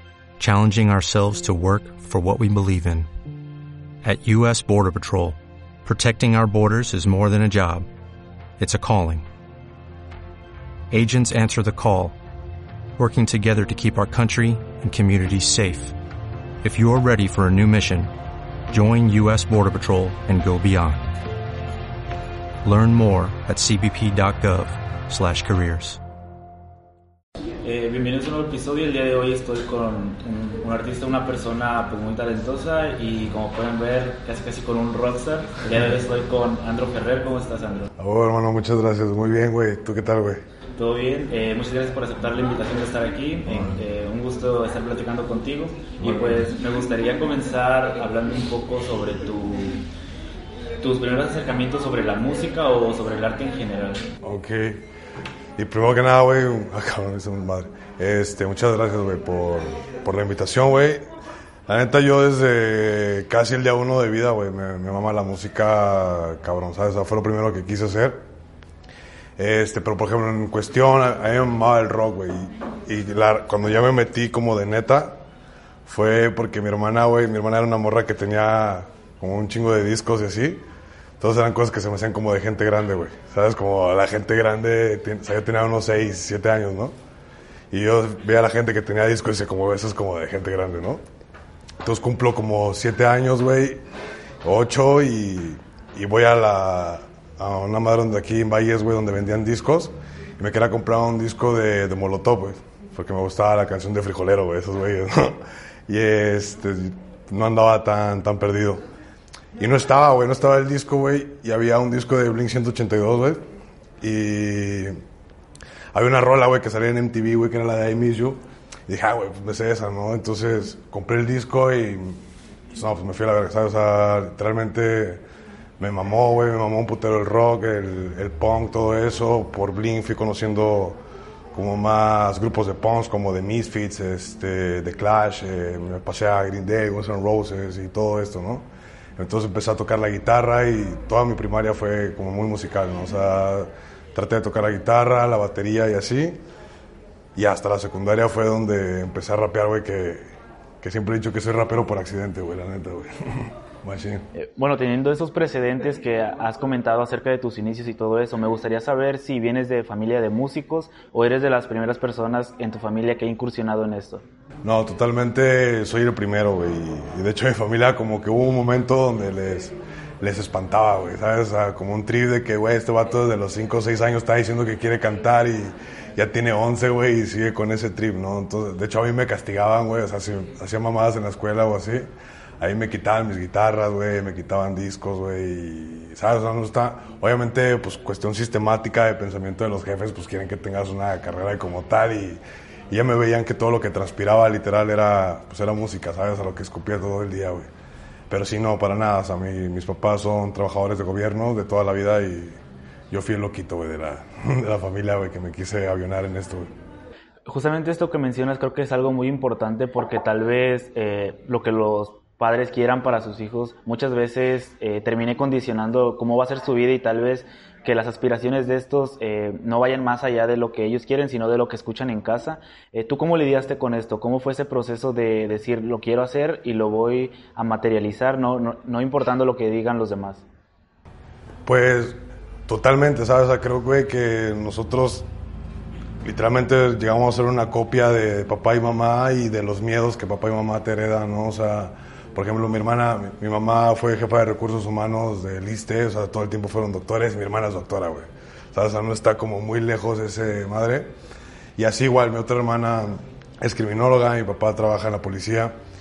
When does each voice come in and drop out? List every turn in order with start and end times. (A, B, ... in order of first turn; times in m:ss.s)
0:00.4-0:03.1 A
0:04.0-0:07.9 A
0:08.6-0:09.2 A
0:10.9-0:12.2 A
0:13.0-0:16.0 A
0:16.6-0:18.1 A
0:18.7-0:21.1 A
0:22.6-0:26.0 A
0:27.6-0:37.9 B
0:38.0-0:40.4 C
0:40.8-0:49.9 B
0:46.0-0:46.5 C
0:50.8-0:54.1 B
0:54.2-0:54.8 C
0:55.6-1:01.1 C
1:01.7-1:08.2 C
1:09.4-1:15.2 C
1:15.9-1:20.6 C
1:21.2-1:26.9 C
1:27.7-1:31.0 C
1:31.8-1:33.8 C
1:34.4-1:48.8 C
1:49.6-1:53.4 C
1:54.0-1:55.0 C
1:55.9-2:02.2 C
2:02.7-2:05.2 C
2:05.8-2:11.0 C
2:11.5-2:18.7 C
2:19.2-2:26.4 C
2:27.4-2:30.3 C
2:30.8-2:34.3 C
2:34.3-2:44.2 B
2:44.6-3:02.1 C
3:02.6-3:17.7 C
3:18.3-3:22.6 C
3:23.1-3:26.7 C
3:27.5-3:50.5 B
3:51.6-3:55.3 C
3:56.2-4:11.1 C
4:11.8-4:15.7 C